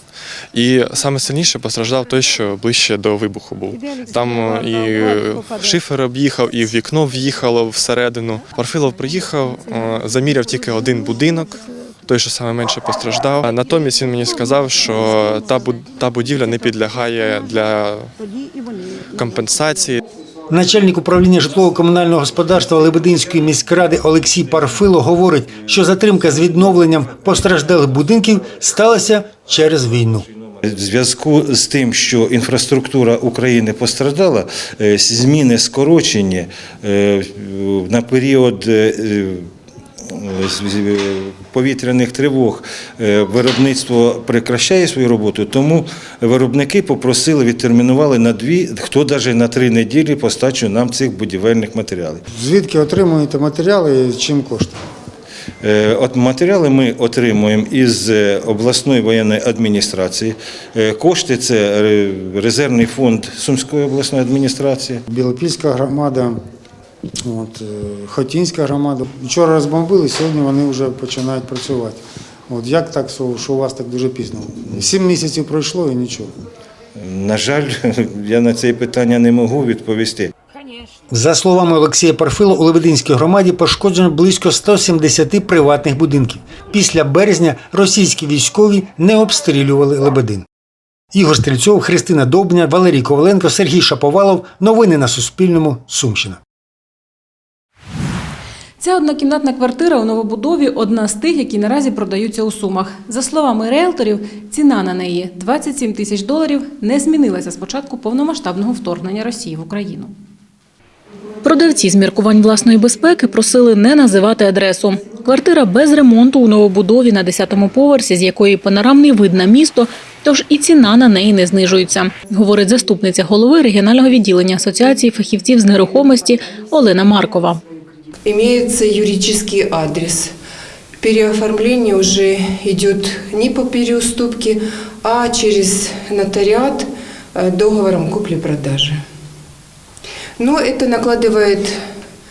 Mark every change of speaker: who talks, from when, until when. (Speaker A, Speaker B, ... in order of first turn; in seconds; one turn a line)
Speaker A: 0.5-11.6
Speaker A: 12.1-18.1
Speaker A: 19.1-20.0
Speaker B: 20.5-30.2
Speaker C: 30.6-39.5
Speaker C: 40.1-52.2
Speaker D: 52.3-54.8
Speaker C: 55.6-65.0
Speaker D: 65.1-66.4
Speaker D: 67.3-76.3
Speaker C: 74.7-74.9
Speaker C: 77.0-80.3
Speaker B: 81.1-90.5
Speaker B: 91.1-96.4
Speaker E: 98.8-110.1
Speaker E: 111.4-127.6
Speaker F: 128.2-130.3
Speaker F: 131.0-139.0
Speaker F: 140.4-141.8